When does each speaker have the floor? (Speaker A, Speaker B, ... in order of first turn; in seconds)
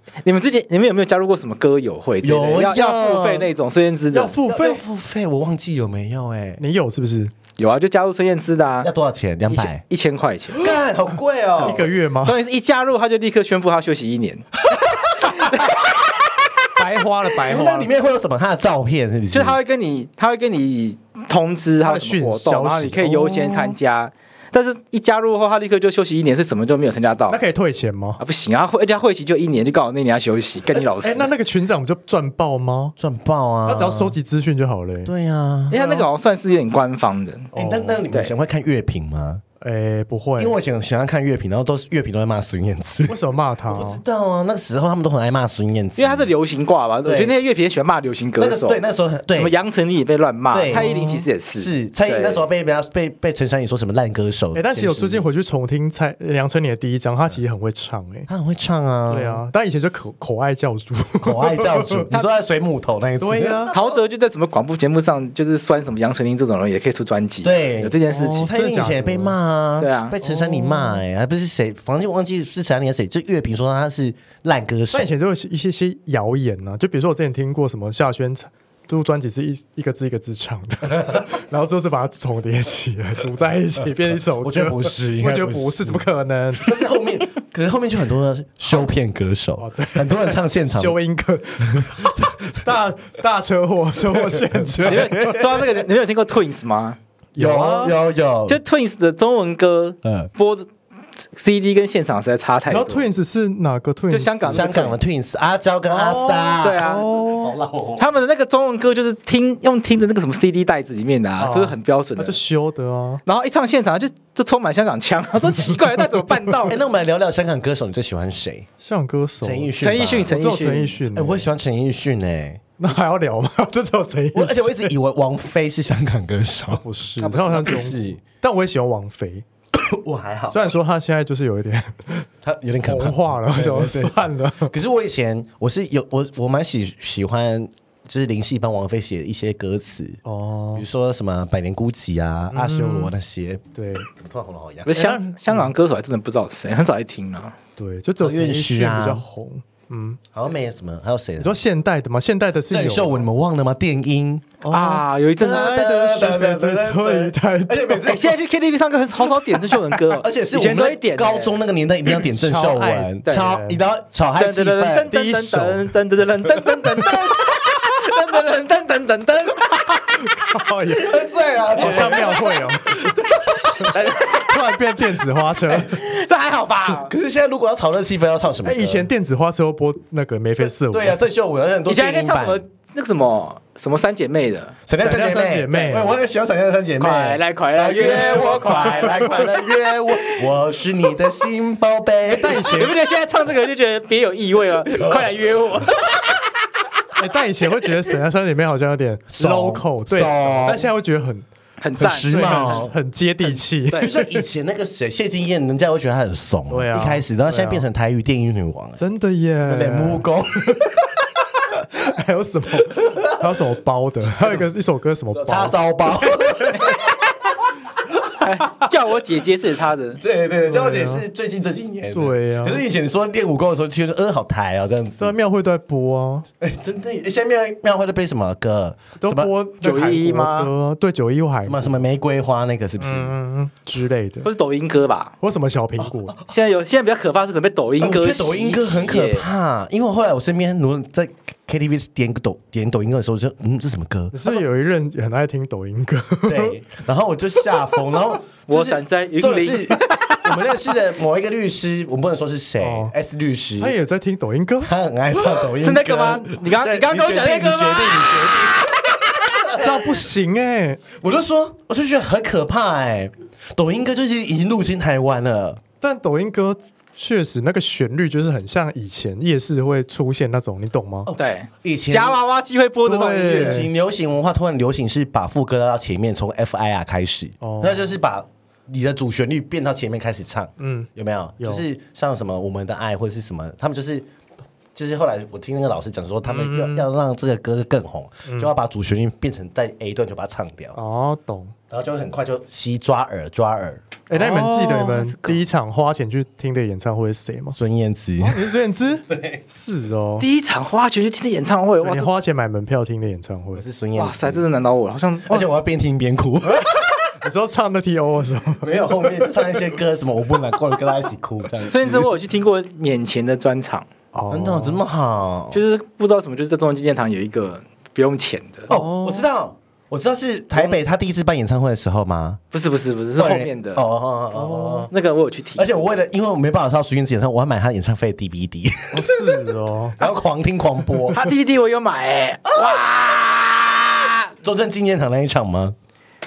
Speaker A: 0.2-4.3, 7.6-8.9, 9.5-10.7, 12.2-14.5, 19.3-27.4, 28.2-31.3, 35.7-37.5, 46.0-48.8, 49.3-52.4, 63.7-68.5, 69.8-70.1, 94.8-97.0, 98.5-100.7, 101.3-103.1, 104.1-105.0, 106.6-107.1, 108.0-112.4, 113.2-116.8, 119.8-121.0, 127.2-127.9, 144.8-147.6, 154.7-155.7, 158.1-161.6, 163.2-163.5, 164.4-170.1, 171.8-172.4, 173.9-174.4, 175.8-177.1, 181.8-184.8, 187.0-190.4, 192.6-196.2, 201.8-202.9, 203.8-204.1, 218.4-220.2, 229.8-230.7, 234.4-235.3, 236.5-239.4, 248.7-250.5, 255.6-258.7, 271.4-273.9, 294.3-295.6, 300.4-302.3, 304.1-305.7, 311.9-314.1, 315.7-318.9, 322.7-324.0, 325.1-325.9, 331.3-334.5
Speaker B: 2.2-3.5, 4.4-6.6, 8.8-9.8, 10.5-11.9, 14.9-15.3, 17.4-19.6, 33.0-34.1, 35.0-35.8, 37.5-39.4, 40.4-46.3, 47.0-47.3, 48.4-49.5, 50.5-50.9, 51.6-55.2, 58.3-59.4, 61.2-63.9, 67.4-75.1, 84.4-86.0, 86.6-91.0, 91.7-92.6, 94.2-95.6, 97.4-98.6, 100.0-100.3, 104.5-108.0, 116.6-118.7, 119.4-120.4, 121.1-122.6, 124.3-126.8, 127.6-128.2, 129.7-130.7, 132.4-140.2, 140.7-144.9, 148.2-149.2, 150.3-151.6, 152.7-154.5, 155.4-158.4, 160.1-165.1, 170.9-174.4, 177.0-179.1, 180.8-182.6, 184.8-192.8, 194.9-195.3, 199.3-200.9, 202.0-202.9, 204.0-209.0, 209.6-211.2, 215.3-217.0, 220.2-225.3, 226.6-229.5, 231.6-233.3, 238.0-244.6, 246.4-253.9, 254.8-260.1, 261.1-265.8, 271.2-272.4, 273.5-284.3, 284.9-290.9, 291.9-294.0, 297.7-299.6, 303.7-304.6, 305.5-307.1, 308.8-312.3, 314.5-315.8, 318.9-322.6, 323.4-325.1, 325.8-331.4, 334.6-335.9
Speaker C: 4.1-4.8, 6.6-7.3, 11.6-12.4, 16.8-17.9, 21.8-23.8, 27.3-28.2, 31.0-32.9, 33.7-35.1, 35.7-36.1, 37.5-38.0, 39.6-40.6, 43.1-44.0, 50.7-51.2, 54.5-58.3, 59.1-62.0, 63.2-63.7, 68.1-69.4, 70.2-71.0, 74.9-86.8, 89.6-95.7, 97.3-98.0, 102.7-104.7, 105.9-107.5, 111.4-113.2, 118.8-121.5, 122.8-124.9, 126.8-129.4, 130.5-132.3, 132.8-134.7, 140.2-140.8, 142.5-143.1, 143.7-144.1, 144.9-145.7, 147.8-150.2, 151.4-153.3, 154.6-158.1, 162.1-163.8, 165.1-165.9, 167.0-167.2, 170.2-173.2, 173.8-176.0, 178.6-181.2, 184.9-186.2, 192.4-193.0, 197.2-201.4, 202.2-204.4, 206.7-207.8, 209.0-210.8, 211.9-215.8, 220.7-221.2, 222.1-222.8, 225.2-226.5, 229.2-232.0, 233.0-234.5, 235.4-236.4, 244.3-246.8, 252.8-253.1, 253.8-254.9, 259.7-261.0, 266.0-271.3, 273.0-273.9, 277.6-278.1, 280.8-281.8, 286.4-287.1, 290.9-291.7, 294.3-297.8, 298.4-300.5, 302.0-303.8, 306.6-309.8, 314.3-315.0, 318.9-319.5, 324.5-325.1, 329.1-330.2